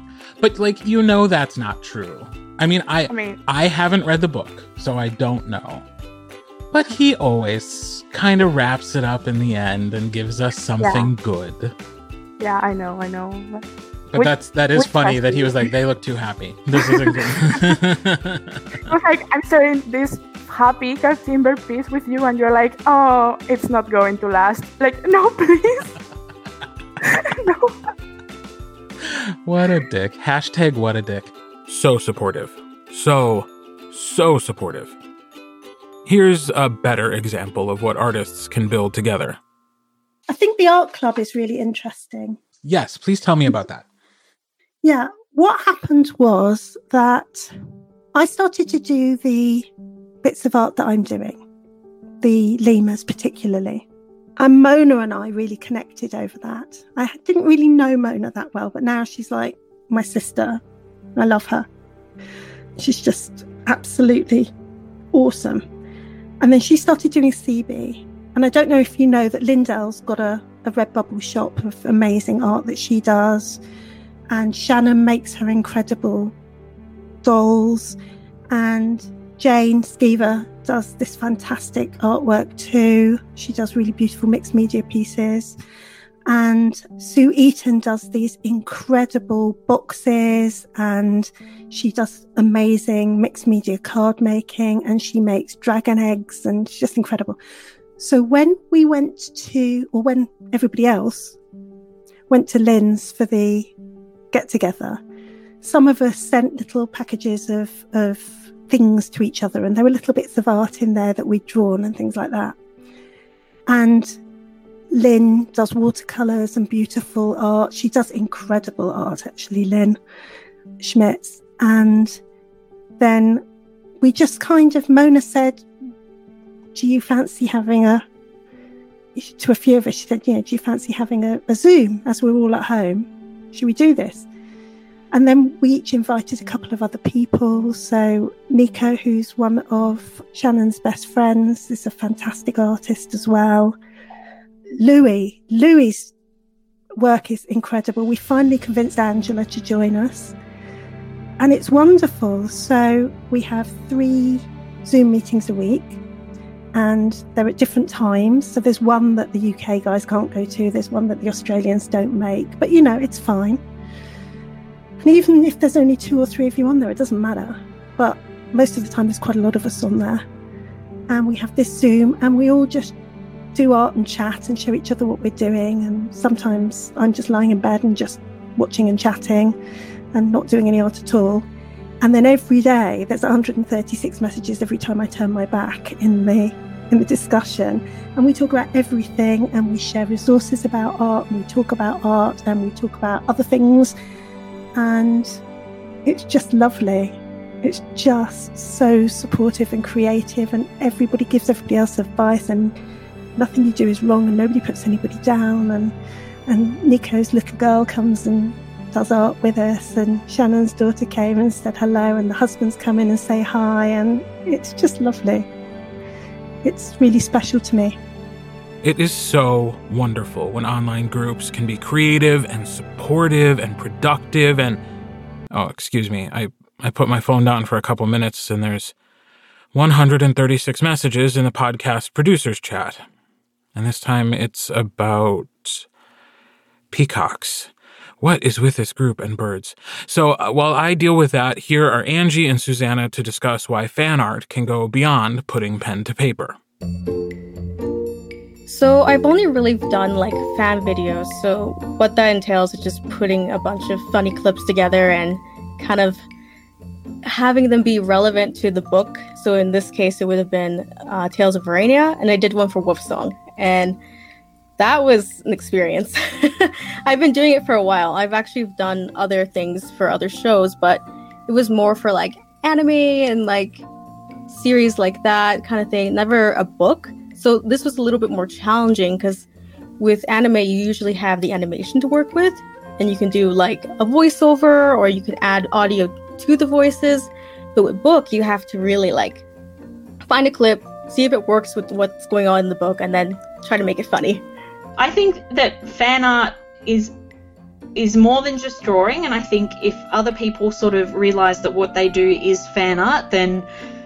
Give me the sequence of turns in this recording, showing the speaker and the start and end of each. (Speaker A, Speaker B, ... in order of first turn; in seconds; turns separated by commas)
Speaker A: 0.4-5.8, Speaker B: 3.1-3.4, Speaker A: 6.7-11.7, Speaker B: 10.8-11.1, Speaker B: 12.4-15.7, Speaker A: 14.1-18.9, Speaker B: 16.8-17.6, Speaker B: 18.9-25.9, Speaker B: 27.0-27.7, Speaker A: 29.0-35.0, Speaker A: 36.0-39.4, Speaker C: 40.3-42.4, Speaker A: 42.6-43.8, Speaker C: 44.8-47.5, Speaker C: 48.1-49.7, Speaker C: 50.2-51.4, Speaker C: 52.2-53.9, Speaker C: 54.4-60.6, Speaker C: 61.1-61.7, Speaker C: 62.8-64.5, Speaker C: 65.1-65.6, Speaker C: 66.4-73.6, Speaker C: 74.3-76.3, Speaker C: 77.2-78.0, Speaker C: 78.5-85.6, Speaker C: 86.3-97.4, Speaker C: 98.0-101.4, Speaker C: 102.3-103.7, Speaker C: 104.3-105.0, Speaker C: 105.6-112.5, Speaker C: 113.7-114.2, Speaker C: 114.9-120.0, Speaker C: 120.8-122.2, Speaker C: 123.0-123.4, Speaker C: 124.0-125.6, Speaker C: 126.7-128.0, Speaker C: 129.2-134.3, Speaker C: 135.1-143.8, Speaker C: 144.8-146.1, Speaker C: 147.0-150.3, Speaker C: 151.4-156.0, Speaker C: 156.7-163.6, Speaker C: 165.0-170.2, Speaker C: 171.1-172.9, Speaker C: 173.5-179.6, Speaker C: 180.1-181.5, Speaker C: 182.0-193.9, Speaker C: 194.7-195.4, Speaker C: 196.0-202.8, Speaker C: 203.3-205.9, Speaker C: 206.5-215.5, Speaker C: 216.6-218.0, Speaker A: 218.8-224.8, Speaker A: 225.5-228.9, Speaker A: 229.7-233.0, Speaker A: 233.7-235.9, Speaker A: 236.9-246.6, Speaker D: 248.7-256.2, Speaker D: 257.2-264.0, Speaker D: 264.8-273.8, Speaker D: 274.5-279.4, Speaker D: 280.0-289.4, Speaker D: 290.3-294.4, Speaker E: 295.0-297.1, Speaker E: 297.9-303.7